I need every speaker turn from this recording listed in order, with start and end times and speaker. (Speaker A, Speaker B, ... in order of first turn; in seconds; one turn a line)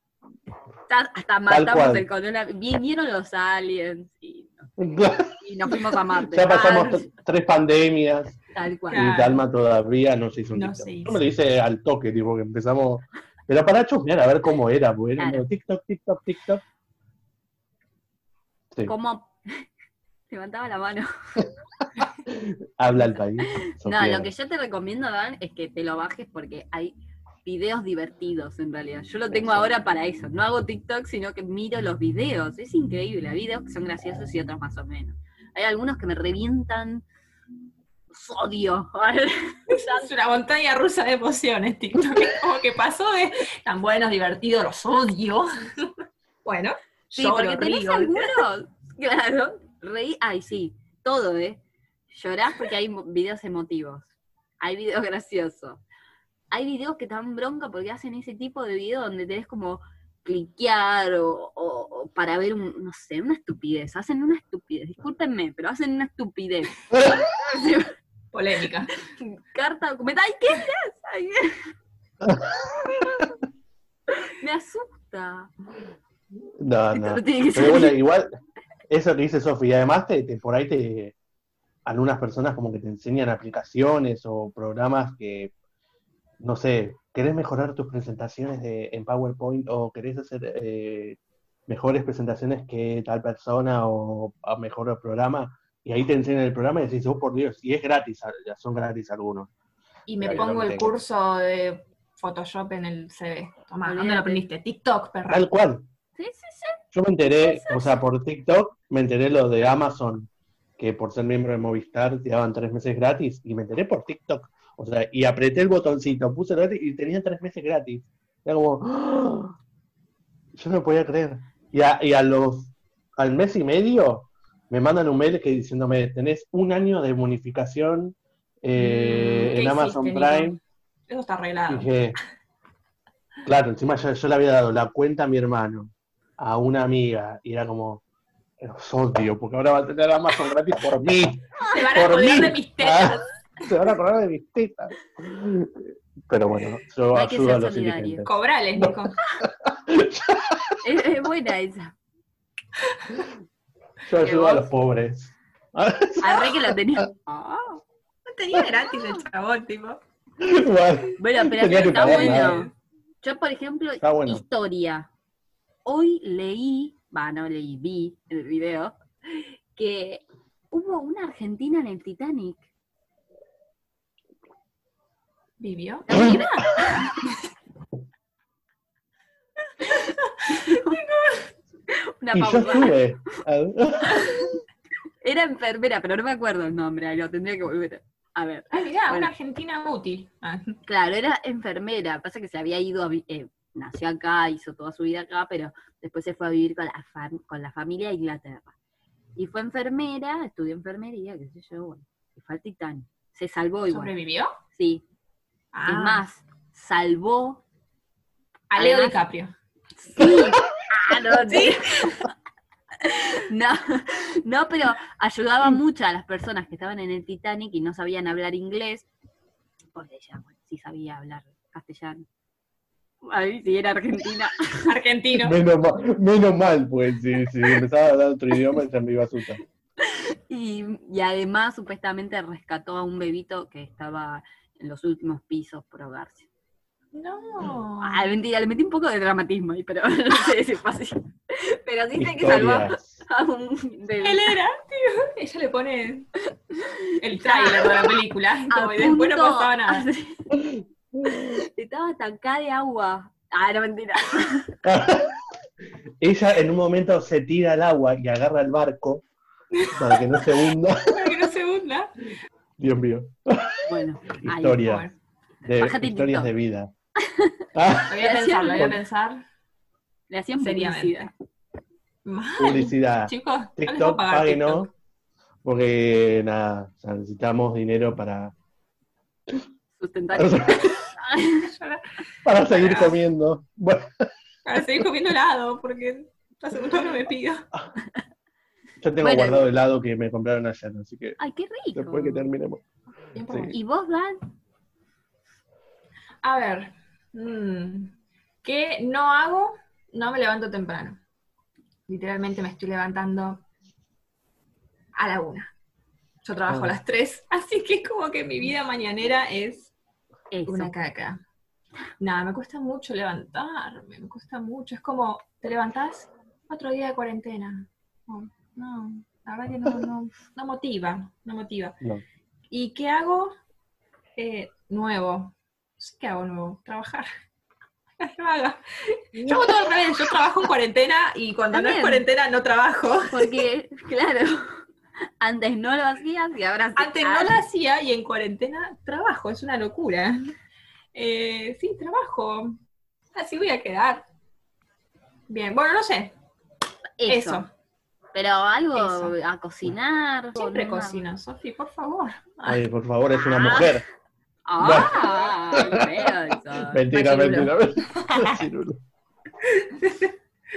Speaker A: 0.9-4.7
Speaker B: 1.5-2.0
Speaker B: 4.8-8.4
Speaker A: 5.4-7.1
Speaker A: 8.5-9.1
Speaker C: 8.9-9.4
Speaker B: 8.9-16.6
Speaker C: 10.5-11.2
Speaker A: 15.2-15.4
Speaker A: 18.8-19.6
Speaker A: 20.3-21.1
Speaker B: 22.2-24.3
Speaker A: 23.6-37.0
Speaker B: 29.3-29.6
Speaker A: 38.1-40.1
Speaker C: 39.7-45.9
Speaker C: 46.4-48.4
Speaker A: 47.1-54.1
Speaker A: 54.6-55.8
Speaker A: 56.5-67.9
Speaker B: 66.9-67.2
Speaker C: 68.3-68.9
Speaker A: 69.2-71.5
Speaker B: 72.2-72.6
Speaker A: 72.9-73.2
Speaker A: 74.1-75.5
Speaker B: 76.6-78.3
Speaker A: 76.9-78.0
Speaker B: 78.9-81.1
Speaker B: 81.8-85.5
Speaker B: 86.4-99.5
Speaker C: 100.1-105.5
Speaker B: 100.2-101.0
Speaker A: 103.8-104.4
Speaker B: 105.3-105.8
Speaker A: 106.2-106.8
Speaker B: 106.9-119.5
Speaker A: 107.5-107.9
Speaker B: 120.5-130.6
Speaker C: 128.8-130.6
Speaker C: 131.1-131.9
Speaker B: 131.7-132.2
Speaker B: 133.4-138.0
Speaker B: 138.6-150.8
Speaker C: 141.7-143.2
Speaker A: 147.1-148.2
Speaker C: 148.2-149.2
Speaker A: 150.8-151.9
Speaker B: 154.0-157.0
Speaker A: 154.2-154.7
Speaker A: 156.2-157.8
Speaker C: 158.3-160.0
Speaker B: 160.4-162.7
Speaker A: 161.2-162.7
Speaker C: 161.9-162.6
Speaker A: 163.2-165.1
Speaker B: 164.0-164.4
Speaker A: 165.8-168.9
Speaker A: 169.7-172.6
Speaker C: 175.6-176.8
Speaker A: 176.1-177.2
Speaker B: 176.1-176.4
Speaker A: 179.8-181.0
Speaker C: 180.5-181.4
Speaker A: 181.9-183.0
Speaker B: 182.3-184.3
Speaker A: 185.2-189.3
Speaker C: 188.7-190.8
Speaker A: 190.8-198.7
Speaker A: 199.3-204.1
Speaker C: 203.9-204.5
Speaker A: 204.7-205.0
Speaker C: 205.7-206.2
Speaker A: 205.8-207.6
Speaker C: 208.7-209.5
Speaker A: 208.8-209.1
Speaker A: 210.0-212.3
Speaker C: 211.5-212.2
Speaker A: 213.0-219.1
Speaker A: 219.9-222.2
Speaker A: 223.2-224.9
Speaker C: 224.8-225.6
Speaker B: 225.3-229.6
Speaker A: 230.0-236.4
Speaker C: 237.1-238.3
Speaker A: 238.0-244.5
Speaker B: 242.2-243.2
Speaker C: 244.2-246.3
Speaker A: 246.7-248.1
Speaker C: 247.2-250.1
Speaker A: 248.7-250.6
Speaker B: 250.5-251.4
Speaker A: 251.2-254.7
Speaker B: 254.8-255.4
Speaker B: 256.2-259.2
Speaker C: 259.7-260.5
Speaker B: 259.9-261.4
Speaker C: 261.1-262.1
Speaker B: 262.8-265.1
Speaker A: 263.9-265.0
Speaker C: 264.8-265.1
Speaker B: 265.6-266.9
Speaker A: 265.8-266.5
Speaker A: 267.2-267.6
Speaker B: 267.7-268.2
Speaker C: 268.1-269.4
Speaker A: 268.2-268.9
Speaker A: 270.3-271.3
Speaker C: 270.6-271.3
Speaker C: 272.2-274.9
Speaker B: 272.6-274.9
Speaker B: 275.6-278.5
Speaker A: 280.0-281.7
Speaker B: 280.3-281.1
Speaker C: 281.6-283.1
Speaker B: 282.4-284.3
Speaker C: 284.6-287.6
Speaker B: 289.0-291.4
Speaker A: 289.2-289.7
Speaker A: 291.4-292.5
Speaker B: 291.9-292.8
Speaker C: 293.3-293.7
Speaker B: 293.5-293.8
Speaker A: 293.7-294.4
Speaker C: 296.4-301.2
Speaker C: 302.1-303.6
Speaker C: 305.1-305.7
Speaker C: 306.4-309.9
Speaker B: 306.7-307.0
Speaker A: 310.5-310.9
Speaker C: 310.7-311.4
Speaker C: 312.2-322.0
Speaker C: 322.7-323.6
Speaker C: 324.4-327.3
Speaker C: 328.2-333.6
Speaker A: 331.7-332.2
Speaker A: 333.3-334.8
Speaker A: 335.4-337.6
Speaker C: 337.0-340.5
Speaker C: 341.1-342.8
Speaker C: 343.3-344.2
Speaker C: 345.5-346.3
Speaker A: 347.2-347.6
Speaker C: 347.3-347.7
Speaker A: 348.3-351.2
Speaker C: 348.9-349.3
Speaker C: 350.6-352.8
Speaker B: 352.6-354.0
Speaker A: 353.4-354.0
Speaker A: 354.7-357.7
Speaker B: 354.8-359.0
Speaker C: 357.3-357.6
Speaker C: 358.1-358.6
Speaker C: 359.6-360.3